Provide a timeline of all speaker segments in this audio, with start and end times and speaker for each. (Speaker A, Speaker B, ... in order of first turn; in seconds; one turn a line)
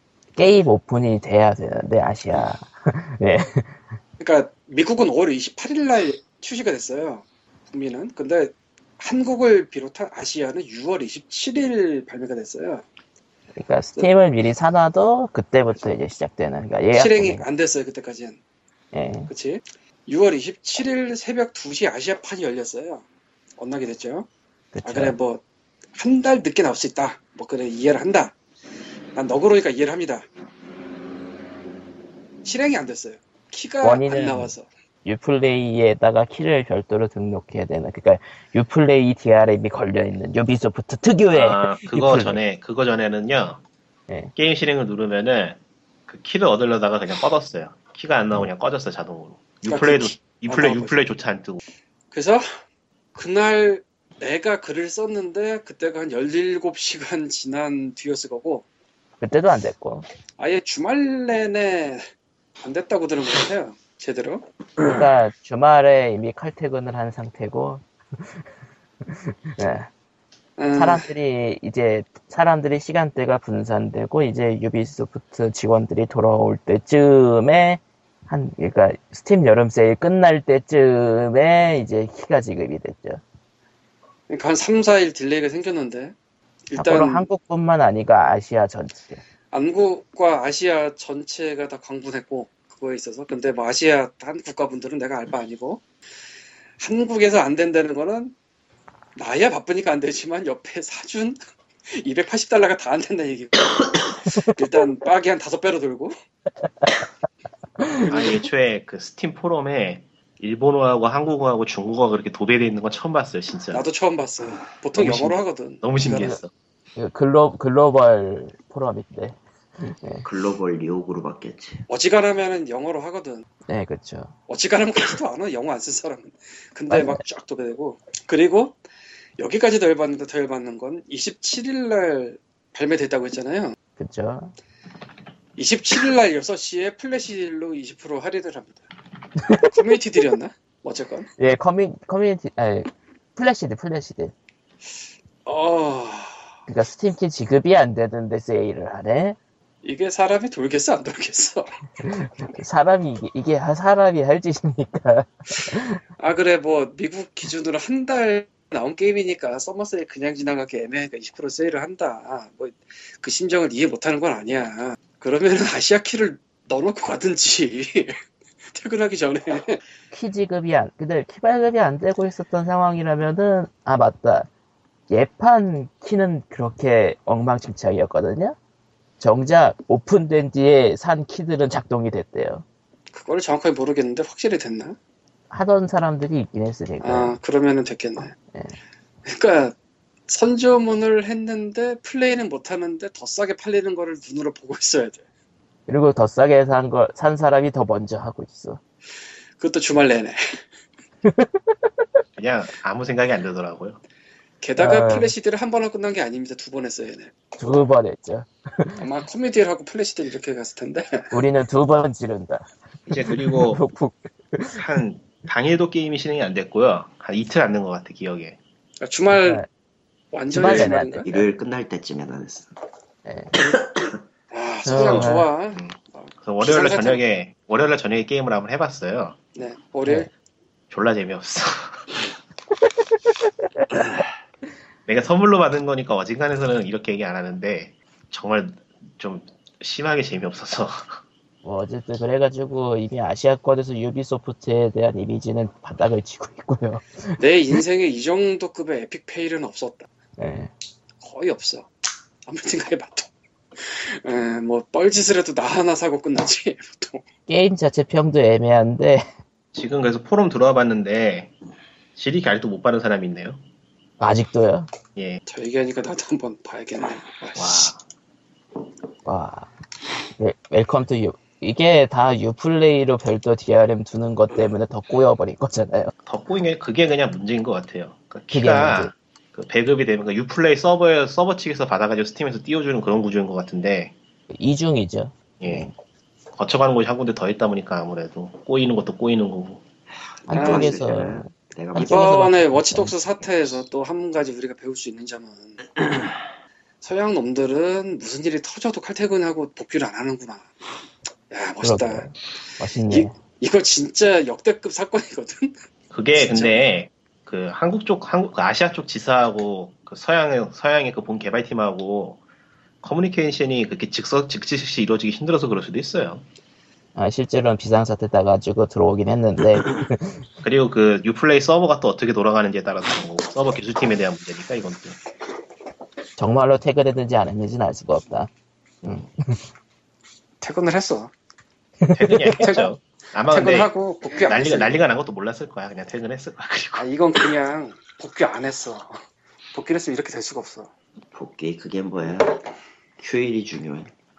Speaker A: 0.3-3.8
Speaker B: 4.2-12.8
Speaker A: 13.5-17.4
Speaker B: 16.9-18.4
Speaker A: 18.9-19.3
Speaker B: 19.3-23.0
Speaker B: 23.6-24.3
Speaker A: 24.7-25.1
Speaker B: 24.8-25.4
Speaker B: 25.9-28.3
Speaker B: 29.1-30.3
Speaker B: 32.4-34.7
Speaker A: 33.8-34.5
Speaker A: 35.0-42.4
Speaker C: 41.3-43.6
Speaker A: 44.1-44.3
Speaker C: 44.4-51.6
Speaker B: 49.6-51.0
Speaker B: 52.1-52.4
Speaker B: 53.1-58.6
Speaker A: 59.2-60.0
Speaker B: 60.4-62.0
Speaker B: 62.6-64.4
Speaker A: 64.8-68.4
Speaker A: 69.0-69.9
Speaker B: 70.6-71.1
Speaker A: 70.7-83.2
Speaker B: 84.3-86.1
Speaker B: 86.7-87.3
Speaker A: 86.8-89.2
Speaker B: 89.5-95.8
Speaker B: 96.8-98.3
Speaker B: 99.2-101.4
Speaker B: 101.9-106.2
Speaker B: 108.1-108.5
Speaker C: 108.1-113.9
Speaker B: 113.7-116.4
Speaker C: 114.9-116.5
Speaker A: 116.1-116.4
Speaker A: 117.0-120.2
Speaker D: 120.2-121.8
Speaker B: 121.9-123.4
Speaker A: 123.7-124.3
Speaker B: 124.5-128.8
Speaker A: 126.9-127.2
Speaker B: 129.4-133.7
Speaker A: 134.0-134.5
Speaker B: 135.6-138.8
Speaker A: 139.4-139.7
Speaker B: 139.6-141.3
Speaker A: 141.4-144.3
Speaker B: 145.4-146.4
Speaker A: 146.7-149.4
Speaker B: 149.8-151.8
Speaker A: 152.0-156.0
Speaker B: 156.2-168.2
Speaker B: 168.7-169.8
Speaker A: 170.1-174.5
Speaker A: 175.1-178.6
Speaker A: 179.2-182.6
Speaker B: 183.1-184.9
Speaker A: 185.5-187.3
Speaker B: 187.0-188.3
Speaker B: 189.2-189.7
Speaker B: 190.3-195.2
Speaker A: 195.9-198.8
Speaker B: 199.6-200.7
Speaker A: 201.2-201.9
Speaker C: 202.4-204.0
Speaker B: 204.6-207.3
Speaker A: 204.8-205.3
Speaker A: 207.6-209.0
Speaker B: 209.0-211.3
Speaker A: 211.3-212.7
Speaker C: 213.1-213.8
Speaker A: 213.3-214.8
Speaker C: 214.8-218.6
Speaker B: 219.0-219.6
Speaker A: 219.3-219.7
Speaker B: 220.3-221.3
Speaker A: 220.5-221.5
Speaker D: 220.6-222.7
Speaker A: 223.2-223.6
Speaker B: 224.5-227.2
Speaker A: 224.8-225.5
Speaker C: 225.0-229.4
Speaker B: 229.5-230.3
Speaker C: 230.9-232.0
Speaker C: 235.1-241.2
Speaker A: 241.6-247.4
Speaker B: 247.4-250.1
Speaker A: 250.4-250.7
Speaker B: 251.2-251.9
Speaker B: 252.4-257.2
Speaker A: 257.5-259.3
Speaker C: 259.7-261.5
Speaker C: 262.1-263.6
Speaker A: 264.2-264.9
Speaker C: 265.1-265.4
Speaker B: 265.5-267.9
Speaker C: 267.6-268.0
Speaker A: 269.2-269.7
Speaker A: 270.4-276.1
Speaker C: 276.2-284.1
Speaker A: 278.5-279.1
Speaker A: 284.5-285.9
Speaker C: 285.6-285.9
Speaker C: 286.6-289.8
Speaker D: 290.1-292.4
Speaker A: 290.5-293.1
Speaker B: 290.6-290.9
Speaker B: 292.0-296.0
Speaker B: 297.0-300.7
Speaker B: 301.5-302.3
Speaker A: 301.8-303.3
Speaker B: 303.1-305.8
Speaker C: 306.1-312.4
Speaker B: 306.3-306.8
Speaker C: 313.0-316.4
Speaker A: 317.1-320.4
Speaker C: 320.6-325.2
Speaker A: 326.4-328.5
Speaker A: 329.0-329.6
Speaker B: 330.6-331.3
Speaker A: 332.0-332.6
Speaker C: 332.1-337.1
Speaker B: 332.6-332.9
Speaker B: 333.5-334.9
Speaker B: 337.0-339.2
Speaker B: 339.7-340.9
Speaker D: 341.3-342.6
Speaker D: 343.2-344.1